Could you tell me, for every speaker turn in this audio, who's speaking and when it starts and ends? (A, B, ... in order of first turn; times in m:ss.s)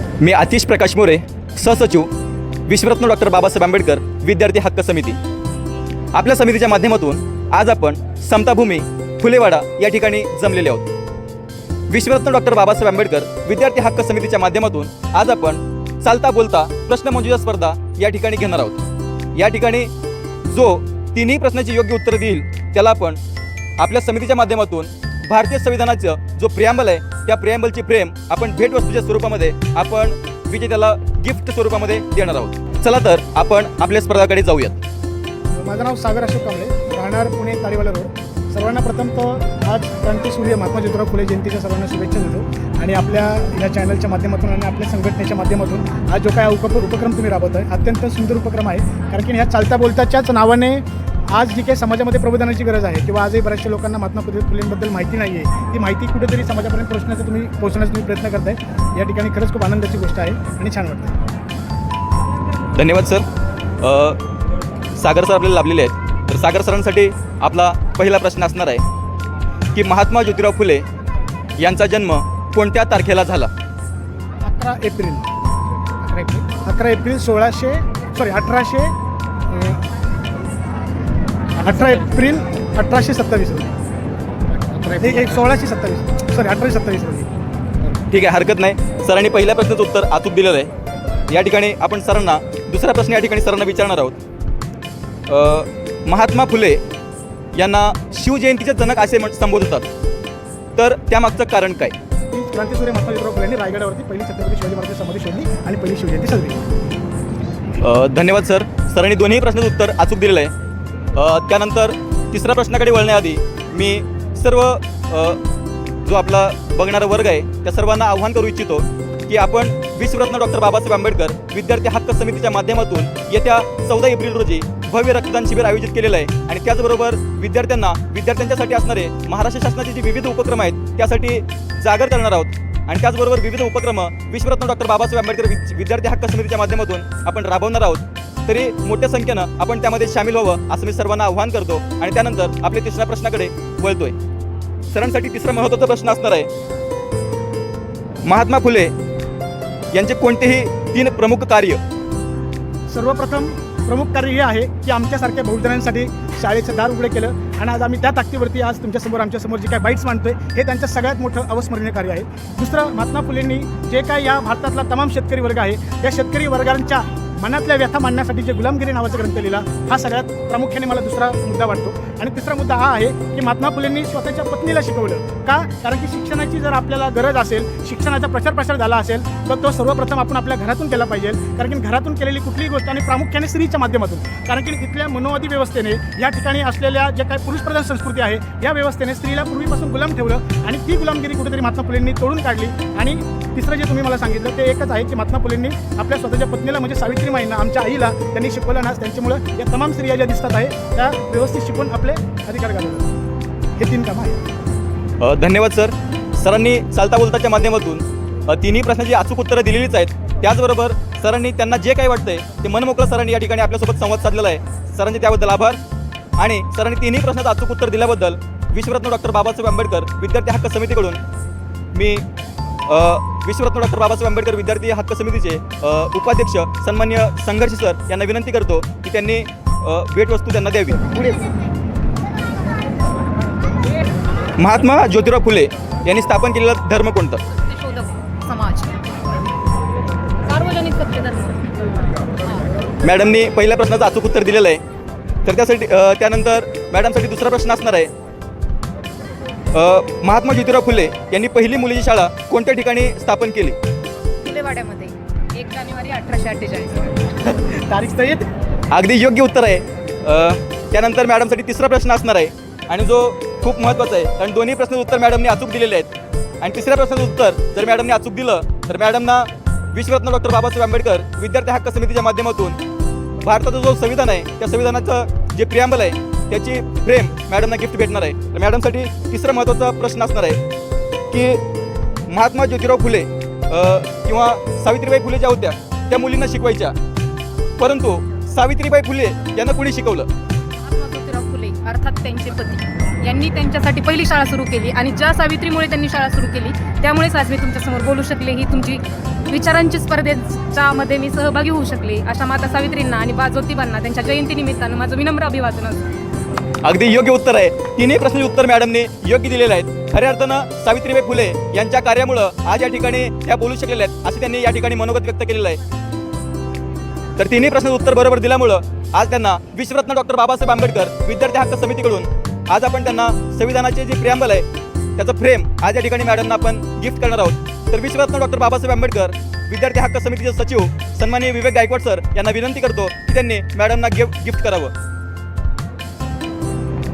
0:00.2-0:02.1 A
0:02.7-0:05.2 A
0:06.1-0:10.9 A
0:11.9-0:19.9 A
0:20.4-0:23.2 A
0:23.8-0:34.8 A
0:35.5-1:01.2 B
1:02.8-1:03.2 A
1:03.8-1:04.2 A
1:04.9-1:08.8 A
1:09.7-1:10.8 A
1:11.6-1:13.5 A
1:14.4-1:15.3 B
1:16.0-1:18.9 B
1:19.5-1:19.8 B
1:21.6-1:23.7 B
1:24.7-1:27.3 B
1:28.1-1:30.7 A
1:31.3-1:34.2 A
1:35.3-1:36.8 A
1:37.6-1:39.9 A
1:40.8-1:42.0 A
1:42.3-1:46.6 B
1:47.8-1:50.5 A
1:51.1-1:55.4 A
1:56.0-2:24.2 A
2:24.9-2:26.5 A
2:28.2-2:28.9 A
2:29.9-2:31.8 A
2:32.9-3:23.1 B
3:23.8-3:24.4 B
3:25.2-3:35.8 A
3:36.4-3:41.2 A
3:41.9-3:42.2 A
3:42.9-3:51.4 A
3:54.6-3:57.4 A
3:57.7-3:58.9 C
4:00.5-4:01.7 C
4:03.0-4:04.8 A
4:05.4-4:08.1 A
4:09.7-4:13.8 A
4:14.4-4:17.1 C
4:17.4-4:18.4 B
4:18.9-4:32.8 A
4:33.4-4:40.6 A
4:41.3-4:41.6 A
4:42.3-4:47.0 A
4:47.8-4:50.3 A
4:50.8-5:06.1 C
5:06.8-5:15.8 A
5:17.4-5:34.9 A